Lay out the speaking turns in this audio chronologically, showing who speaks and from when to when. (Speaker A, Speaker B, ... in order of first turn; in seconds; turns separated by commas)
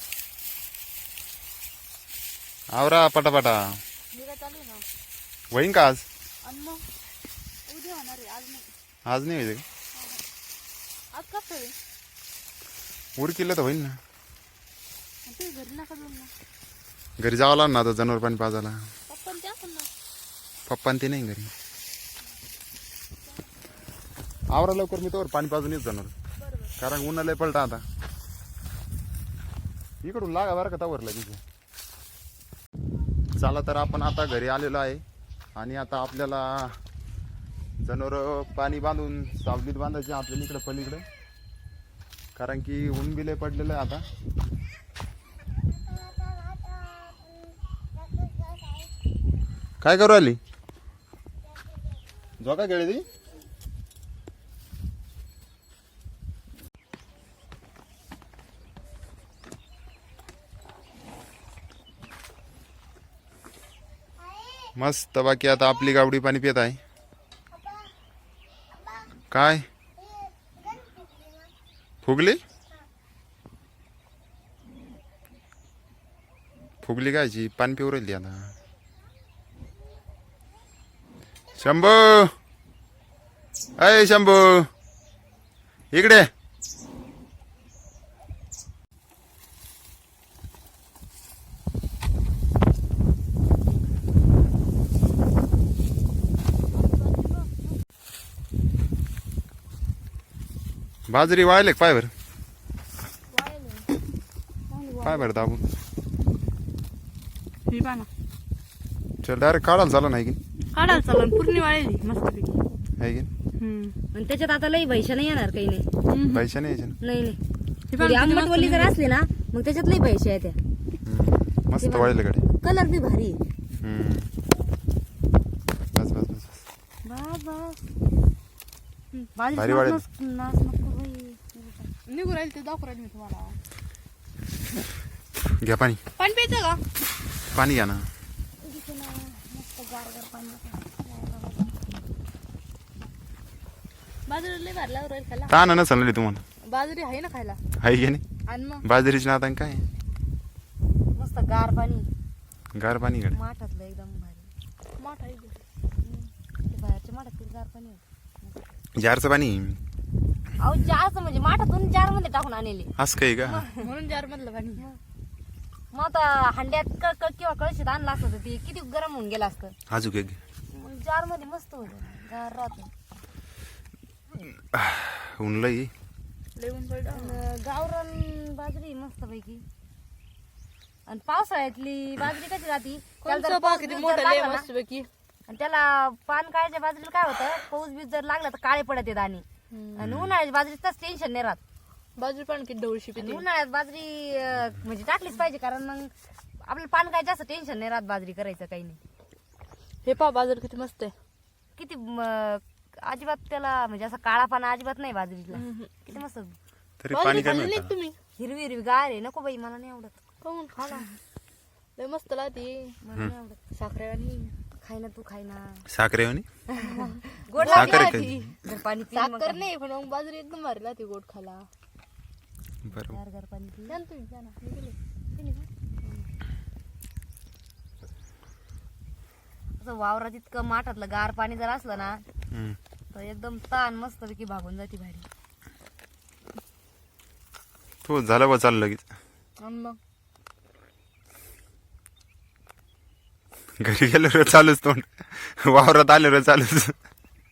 Speaker A: 2.7-3.8, Speaker B: 4.1-4.8, Speaker A: 5.5-6.0, Speaker B: 6.4-6.8, Speaker B: 7.7-8.7, Speaker A: 9.1-9.6, Speaker B: 9.9-10.2, Speaker B: 11.1-11.7, Speaker A: 13.2-14.0, Speaker B: 15.2-16.3, Speaker A: 17.2-18.8, Speaker B: 19.1-19.9, Speaker A: 20.7-21.5, Speaker A: 24.5-26.1, Speaker B: 26.4-26.7, Speaker A: 26.8-27.8, Speaker A: 30.0-31.4, Speaker A: 33.4-35.0, Speaker A: 35.5-36.8, Speaker A: 37.8-41.0, Speaker A: 42.4-44.0, Speaker A: 49.8-50.4, Speaker A: 52.4-53.0, Speaker A: 64.8-66.8, Speaker A: 69.3-69.7, Speaker A: 72.0-72.4, Speaker A: 76.8-78.5, Speaker A: 81.5-82.3, Speaker A: 83.8-84.7, Speaker A: 85.9-86.3, Speaker B: 96.8-97.4, Speaker A: 101.1-102.1, Speaker B: 103.3-103.9, Speaker C: 104.8-105.2, Speaker A: 105.0-105.6, Speaker B: 107.7-108.1, Speaker A: 109.2-110.4, Speaker B: 110.7-112.6, Speaker A: 113.0-113.3, Speaker B: 113.6-114.0, Speaker C: 114.1-115.9, Speaker B: 116.0-116.5, Speaker A: 116.3-117.0, Speaker C: 117.0-117.4, Speaker B: 117.9-119.0, Speaker C: 118.0-120.6, Speaker A: 121.0-122.4, Speaker C: 121.8-123.4, Speaker A: 123.8-124.3, Speaker A: 125.9-126.5, Speaker C: 127.0-127.8, Speaker C: 129.3-131.9, Speaker A: 129.5-130.0, Speaker B: 132.1-133.6, Speaker A: 135.6-136.0, Speaker B: 136.2-136.8, Speaker A: 137.5-138.1, Speaker C: 138.6-142.0, Speaker B: 144.3-145.5, Speaker A: 145.5-146.4, Speaker B: 146.6-147.6, Speaker A: 147.8-148.2, Speaker B: 148.5-148.8, Speaker A: 148.8-149.9, Speaker C: 151.2-152.1, Speaker A: 152.7-153.4, Speaker C: 153.3-154.5, Speaker B: 155.0-155.6, Speaker C: 156.0-158.6, Speaker A: 158.9-159.8, Speaker C: 160.6-162.9, Speaker A: 163.0-163.6, Speaker C: 163.4-163.8, Speaker B: 163.8-164.8, Speaker C: 165.9-169.7, Speaker A: 169.9-170.4, Speaker C: 170.7-172.9, Speaker A: 174.4-175.9, Speaker B: 176.6-177.4, Speaker C: 177.1-179.6, Speaker C: 181.1-184.7, Speaker B: 183.2-185.1, Speaker C: 185.5-189.4, Speaker B: 189.7-190.1, Speaker C: 190.0-191.6, Speaker A: 190.0-190.3, Speaker B: 192.2-193.4, Speaker C: 193.2-199.0, Speaker B: 200.0-201.1, Speaker C: 201.8-206.6, Speaker B: 205.5-205.9, Speaker A: 207.0-207.9, Speaker B: 207.1-208.2, Speaker C: 208.4-210.1, Speaker B: 210.4-211.1, Speaker B: 212.0-212.9, Speaker C: 213.0-213.6, Speaker B: 213.7-214.5, Speaker C: 214.8-215.8, Speaker A: 215.9-216.4, Speaker C: 216.7-219.6, Speaker B: 217.6-218.6, Speaker A: 217.7-218.4, Speaker B: 219.1-221.7, Speaker A: 222.8-223.2, Speaker C: 223.0-224.0, Speaker B: 223.9-224.9, Speaker C: 225.3-226.2, Speaker C: 229.8-232.2, Speaker A: 232.5-232.8, Speaker C: 233.1-235.2, Speaker A: 238.0-239.0, Speaker B: 239.6-240.0, Speaker A: 243.8-246.9